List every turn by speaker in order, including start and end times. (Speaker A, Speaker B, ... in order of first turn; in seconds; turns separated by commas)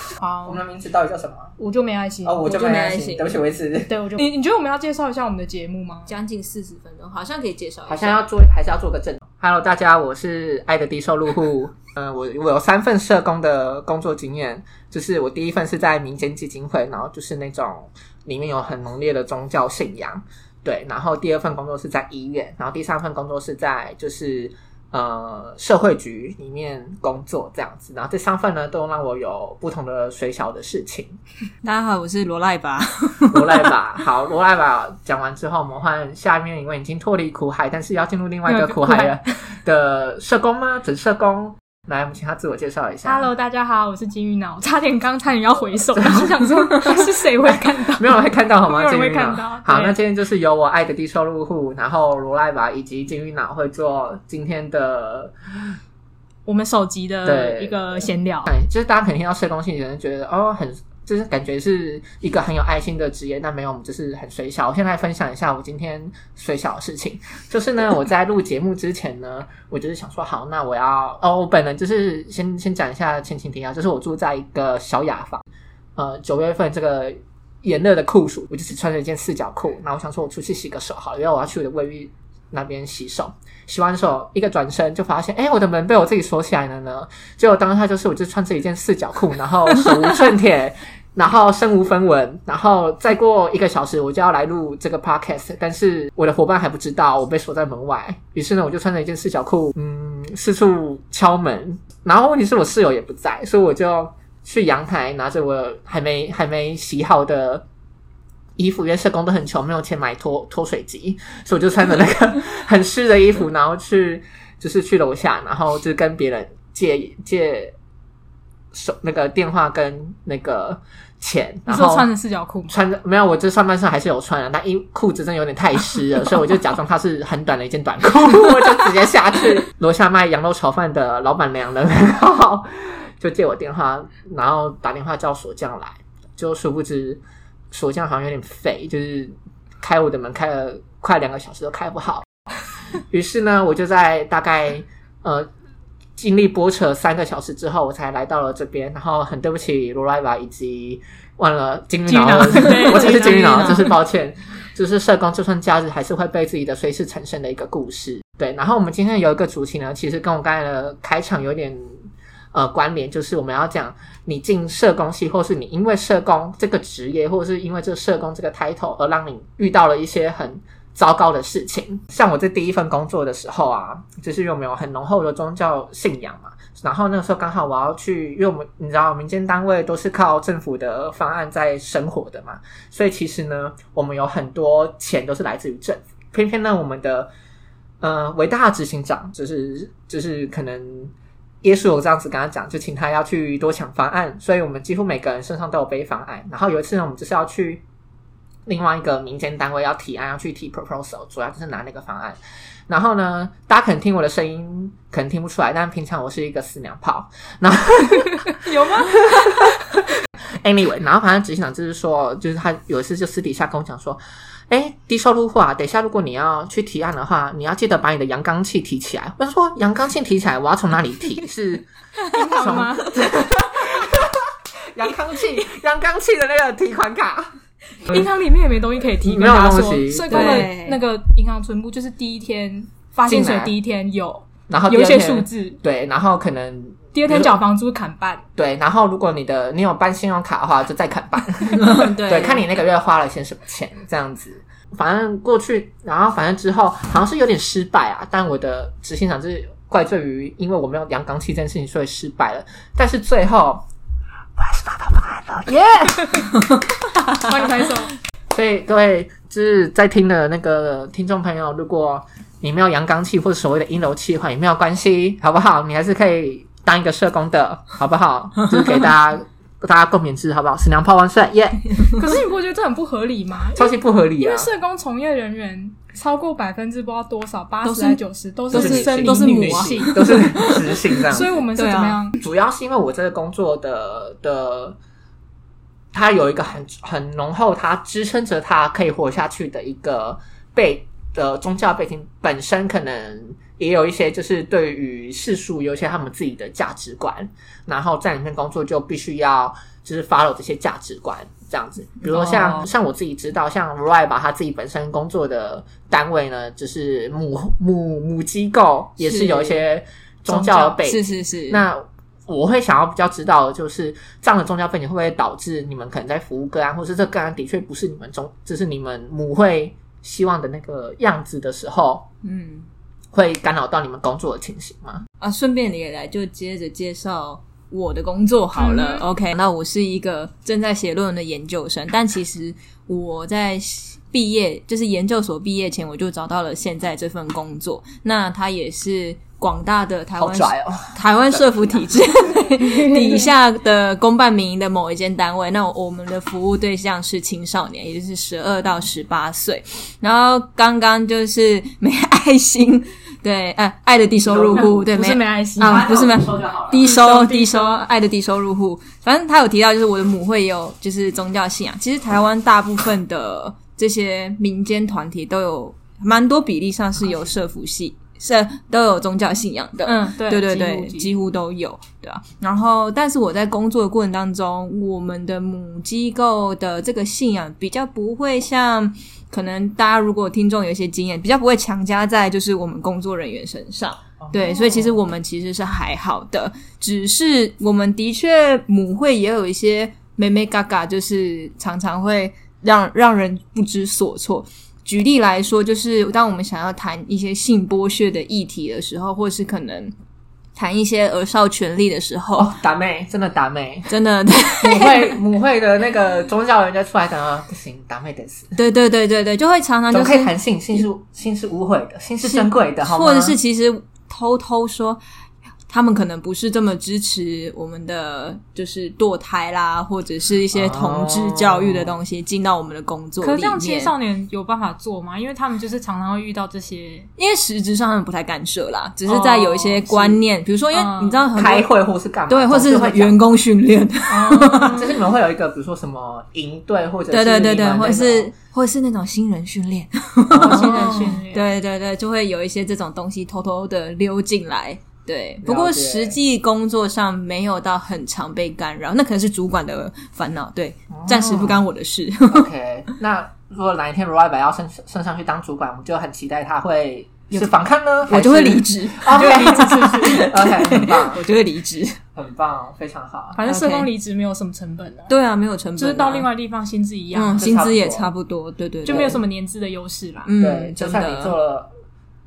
Speaker A: 0.2-0.6, Speaker B: 0.5-1.5, Speaker A: 1.6-2.4, Speaker B: 2.2-4.0, Speaker C: 2.4-3.3, Speaker A: 3.9-6.1, Speaker C: 6.1-8.2, Speaker B: 7.9-31.1, Speaker C: 31.6-33.7, Speaker B: 33.3-43.3, Speaker A: 38.5-39.2, Speaker A: 43.0-49.9, Speaker B: 46.0-55.3, Speaker A: 56.5-58.5, Speaker B: 57.2-75.4, Speaker B: 76.0-107.6, Speaker B: 108.6-117.7, Speaker B: 118.7-122.1, Speaker A: 121.7-122.8, Speaker B: 122.7-142.2, Speaker B: 143.1-145.5, Speaker B: 146.2-187.3, Speaker A: 152.1-153.9, Speaker C: 152.4-153.9, Speaker B: 188.0-197.8, Speaker B: 198.7-210.0, Speaker A: 208.3-209.7, Speaker B: 210.6-228.3, Speaker A: 222.3-223.2, Speaker A: 228.1-235.8, Speaker B: 229.2-230.7, Speaker C: 230.3-231.0, Speaker B: 233.2-233.7, Speaker B: 234.7-237.6, Speaker A: 237.1-238.4, Speaker B: 238.6-253.8, Speaker C: 241.7-242.6, Speaker B: 254.6-256.6, Speaker A: 257.3-258.1, Speaker B: 258.5-271.9, Speaker A: 272.1-282.4, Speaker B: 273.7-274.7, Speaker C: 277.8-281.1, Speaker B: 278.7-281.6, Speaker C: 281.7-282.2, Speaker B: 282.4-285.0, Speaker B: 286.1-322.3, Speaker C: 302.2-302.9, Speaker C: 309.2-309.8, Speaker C: 310.5-311.9, Speaker C: 322.4-322.9, Speaker B: 323.3-325.2, Speaker C: 325.4-400.1, Speaker A: 328.8-329.2, Speaker B: 340.4-342.0, Speaker B: 354.5-354.9, Speaker A: 354.7-356.1, Speaker B: 355.8-357.1, Speaker A: 356.9-358.0, Speaker A: 370.0-371.3, Speaker B: 384.4-385.1, Speaker C: 400.7-402.7, Speaker B: 402.6-404.1, Speaker C: 404.1-405.3, Speaker B: 404.8-408.7, Speaker C: 408.8-411.0, Speaker B: 410.1-413.6, Speaker C: 412.4-415.2, Speaker C: 415.9-424.1, Speaker B: 420.7-422.1, Speaker A: 423.4-427.3, Speaker C: 427.4-431.9, Speaker A: 429.3-430.4, Speaker A: 430.9-431.4, Speaker B: 431.5-433.4, Speaker C: 432.5-435.0, Speaker A: 434.3-435.1, Speaker B: 434.9-438.5, Speaker C: 437.3-452.7, Speaker B: 440.5-441.3, Speaker A: 440.5-441.7, Speaker B: 445.6-446.4, Speaker B: 451.1-451.8, Speaker B: 452.5-461.4, Speaker C: 458.3-462.2, Speaker A: 459.3-460.6, Speaker B: 462.3-463.6, Speaker A: 463.5-465.3, Speaker C: 463.6-464.1, Speaker C: 465.3-466.5, Speaker A: 466.0-467.6, Speaker C: 467.3-469.4, Speaker B: 467.6-468.3, Speaker B: 469.1-469.4, Speaker A: 469.1-470.5, Speaker C: 470.4-471.5, Speaker B: 470.6-471.9